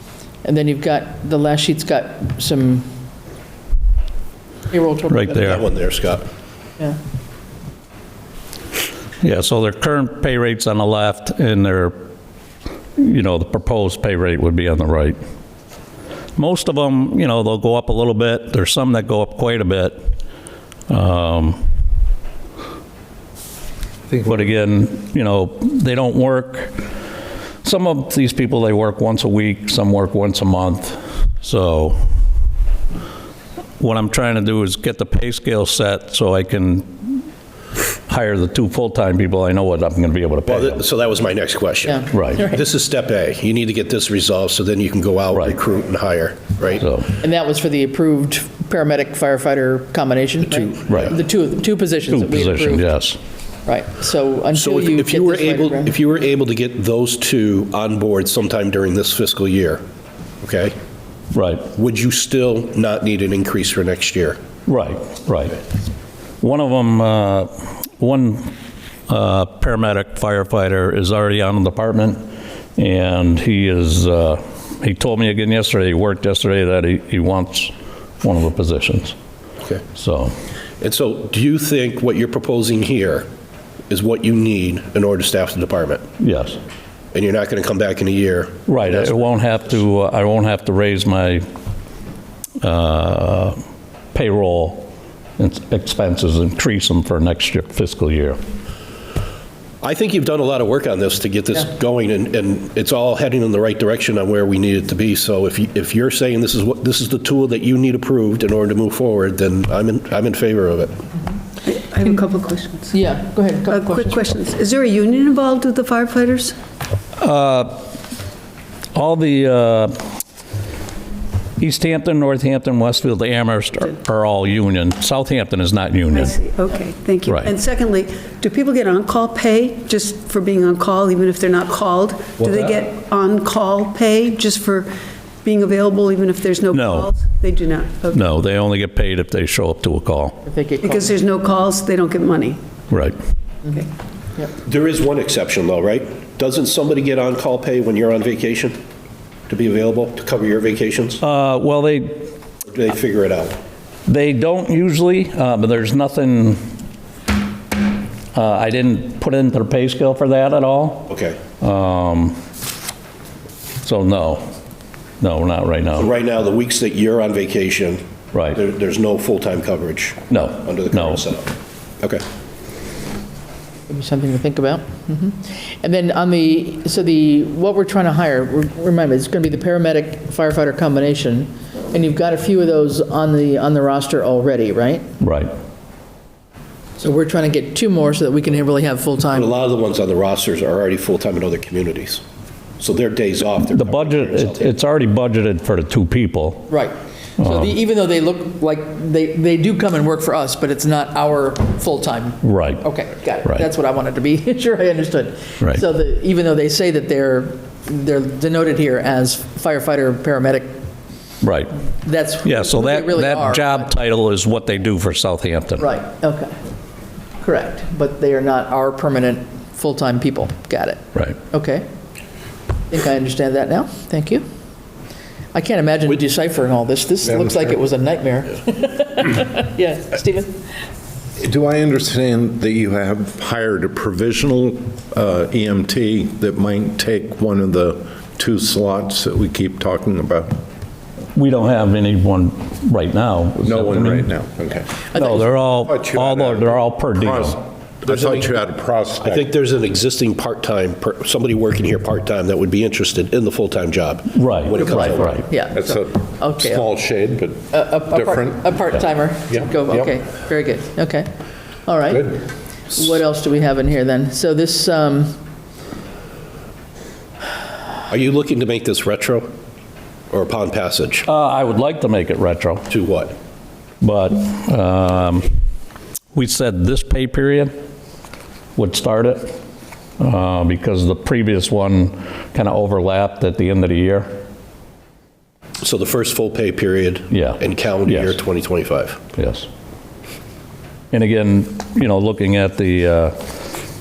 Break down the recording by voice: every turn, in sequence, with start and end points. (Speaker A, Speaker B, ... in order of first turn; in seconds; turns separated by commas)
Speaker A: 0.4-2.9, Speaker A: 4.7-5.6, Speaker B: 5.1-5.6, Speaker C: 5.4-6.2, Speaker B: 9.2-11.9, Speaker B: 13.0-15.2, Speaker B: 16.4-20.0, Speaker B: 20.9-21.6, Speaker B: 24.1-26.8, Speaker B: 27.6-32.0, Speaker B: 33.8-37.2, Speaker B: 38.1-40.8, Speaker C: 40.5-46.8, Speaker A: 41.9-42.6, Speaker B: 42.1-42.4, Speaker B: 46.8-47.1, Speaker A: 47.2-52.9, Speaker C: 50.4-51.2, Speaker B: 50.9-51.2, Speaker B: 52.1-53.2, Speaker A: 53.6-56.0, Speaker C: 54.5-59.8, Speaker C: 60.4-60.7, Speaker B: 61.3-61.7, Speaker C: 61.7-64.4, Speaker B: 64.7-65.6, Speaker B: 66.4-68.5, Speaker B: 69.1-72.2, Speaker B: 72.8-79.1, Speaker B: 79.9-80.3, Speaker C: 80.8-83.3, Speaker C: 83.9-86.0, Speaker B: 86.2-86.6, Speaker C: 87.1-89.2, Speaker B: 88.7-91.4, Speaker B: 92.6-93.6, Speaker B: 94.1-98.4, Speaker C: 99.8-110.9, Speaker D: 111.6-112.9, Speaker A: 112.9-114.2, Speaker D: 113.7-116.5, Speaker B: 117.2-117.8, Speaker B: 118.9-119.9, Speaker B: 121.6-126.4, Speaker D: 126.1-134.9, Speaker D: 135.4-138.2, Speaker B: 136.7-137.2, Speaker B: 138.1-140.3, Speaker A: 140.4-141.2, Speaker D: 140.8-142.6, Speaker B: 142.9-143.2, Speaker C: 144.6-148.8, Speaker C: 149.5-151.2, Speaker B: 151.2-152.2, Speaker C: 152.7-153.6, Speaker B: 154.1-156.6, Speaker B: 158.3-162.3, Speaker C: 161.1-161.4, Speaker B: 163.8-164.4, Speaker B: 165.2-166.1, Speaker C: 165.9-168.0, Speaker B: 168.3-168.6, Speaker C: 168.5-172.2, Speaker B: 170.3-171.2, Speaker A: 173.9-185.1, Speaker B: 185.2-185.5, Speaker A: 187.0-189.5, Speaker C: 189.3-192.2, Speaker C: 192.8-194.7, Speaker B: 193.6-196.7, Speaker A: 196.7-210.8, Speaker B: 197.4-197.7, Speaker B: 202.4-202.8, Speaker B: 211.4-211.7, Speaker A: 212.0-213.9, Speaker B: 212.4-215.9, Speaker A: 215.8-216.5, Speaker A: 217.4-221.9, Speaker A: 222.9-224.4, Speaker A: 225.5-230.6, Speaker E: 227.3-227.7, Speaker E: 231.3-240.6, Speaker B: 241.3-244.3, Speaker E: 243.6-244.9, Speaker A: 245.1-245.5, Speaker B: 245.2-247.6, Speaker E: 245.8-249.5, Speaker C: 248.1-248.5, Speaker C: 249.2-255.4, Speaker B: 254.3-255.4, Speaker A: 255.0-256.9, Speaker E: 255.7-260.1, Speaker A: 257.7-261.3, Speaker A: 261.8-265.4, Speaker C: 268.1-269.5, Speaker C: 270.3-271.2, Speaker B: 271.3-272.9, Speaker C: 272.9-273.3, Speaker B: 274.0-275.5, Speaker B: 276.3-277.7, Speaker B: 278.8-279.5, Speaker B: 280.2-284.4, Speaker C: 285.8-289.2, Speaker B: 287.3-288.4, Speaker B: 289.3-289.7, Speaker B: 291.1-293.4